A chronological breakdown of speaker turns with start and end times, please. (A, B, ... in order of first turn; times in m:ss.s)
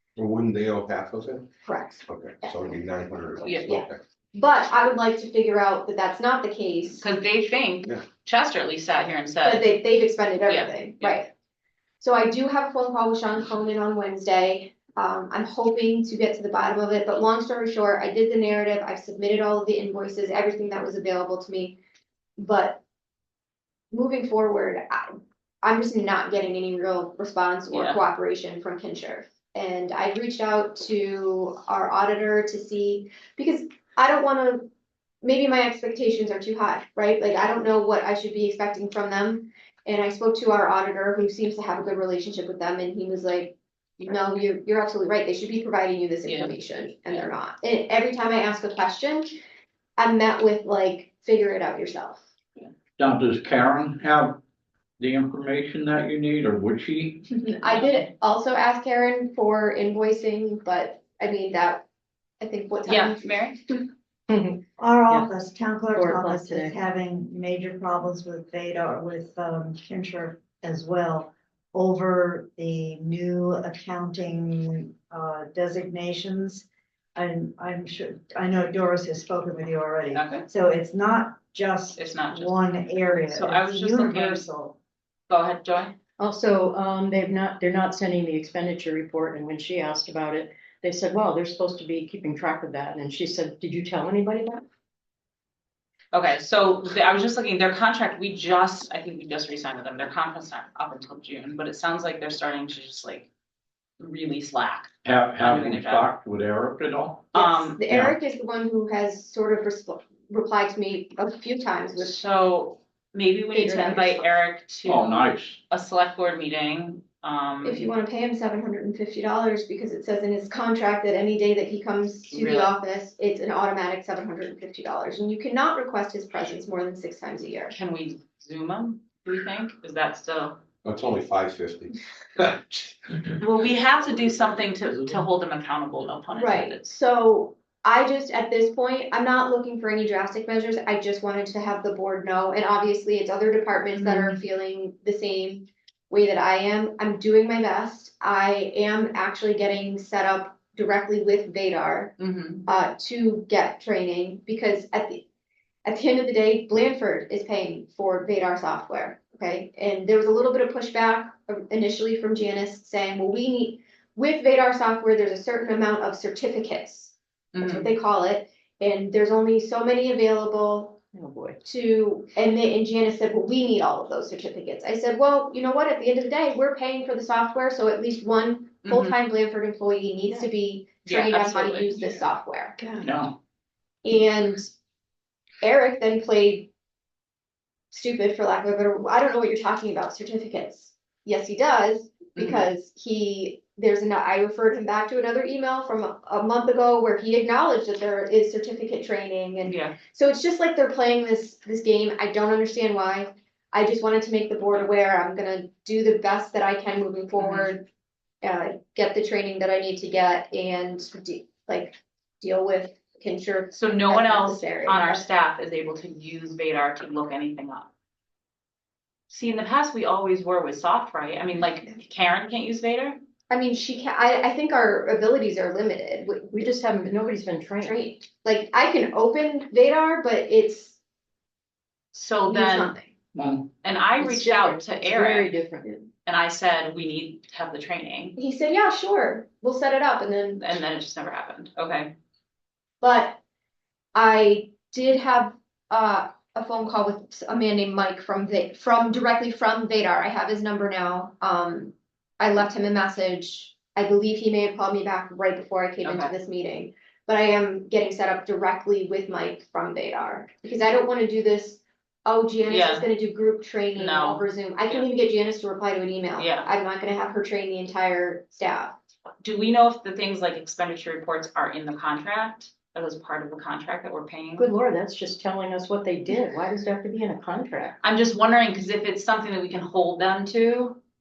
0:00.2-0:01.5 A
0:01.6-0:02.7 B
0:02.1-0:04.0 A
0:03.4-0:03.7 C
0:03.6-0:07.0 B
0:07.0-0:09.7 C
0:09.4-0:11.3 B
0:10.5-0:11.2 C
0:12.0-0:21.8 B
0:22.4-0:22.8 B
0:23.9-0:34.7 B
0:27.7-0:28.0 C
0:35.2-0:49.3 B
0:46.3-0:46.5 C
0:50.0-0:52.2 B
0:53.0-0:54.4 D
0:55.0-0:57.2 D
0:57.3-1:01.8 B
0:57.7-0:58.1 C
1:02.4-1:03.9 B
1:02.9-1:03.6 C
1:04.8-1:24.7 E
1:05.9-1:06.8 F
1:20.1-1:20.5 C
1:22.0-1:22.6 C
1:23.2-1:24.5 C
1:25.3-1:26.0 C
1:26.2-1:34.6 F
1:36.1-1:43.3 C
1:44.0-1:46.1 C
1:45.0-1:47.3 D
1:47.3-1:47.8 C
1:47.4-1:52.2 B
1:47.9-1:48.2 D
1:52.0-1:57.9 C
1:53.5-1:54.3 B
1:54.8-1:55.6 D
1:57.6-2:07.8 B
2:02.3-2:02.7 C
2:07.7-2:10.6 C
2:10.8-2:14.8 A
2:13.4-2:16.9 C
2:16.3-2:32.1 B
2:24.0-2:24.4 C
2:32.2-2:32.6 C
2:32.7-2:35.2 B
2:35.8-2:51.0 B
2:47.5-2:47.9 C
2:51.1-2:51.6 F
2:51.6-3:02.8 B
2:58.8-2:59.2 C
3:01.0-3:02.1 C
3:03.0-3:03.4 D
3:04.0-3:04.7 B
3:05.6-3:06.7 B
3:07.9-3:27.8 B
3:12.4-3:12.7 C
3:19.7-3:20.0 C
3:27.4-3:27.7 C
3:28.4-3:35.3 B
3:33.7-3:37.9 C
3:39.3-3:43.2 C
3:43.5-3:46.8 B
3:46.5-3:48.0 F
3:47.8-3:51.0 B
3:52.1-3:52.9 C
3:52.5-3:53.1 B
3:53.4-3:53.7 D
3:53.8-3:55.5 C
3:54.2-3:56.1 F
3:56.2-3:58.4 C
3:58.4-4:00.7 B
4:00.6-4:02.1 C
4:03.0-4:03.4 B
4:04.2-4:28.9 B
4:16.0-4:16.3 C
4:22.7-4:23.1 C
4:24.0-4:25.0 C
4:26.4-4:26.7 C
4:29.4-4:34.7 C
4:34.6-4:38.0 F
4:38.0-4:41.0 C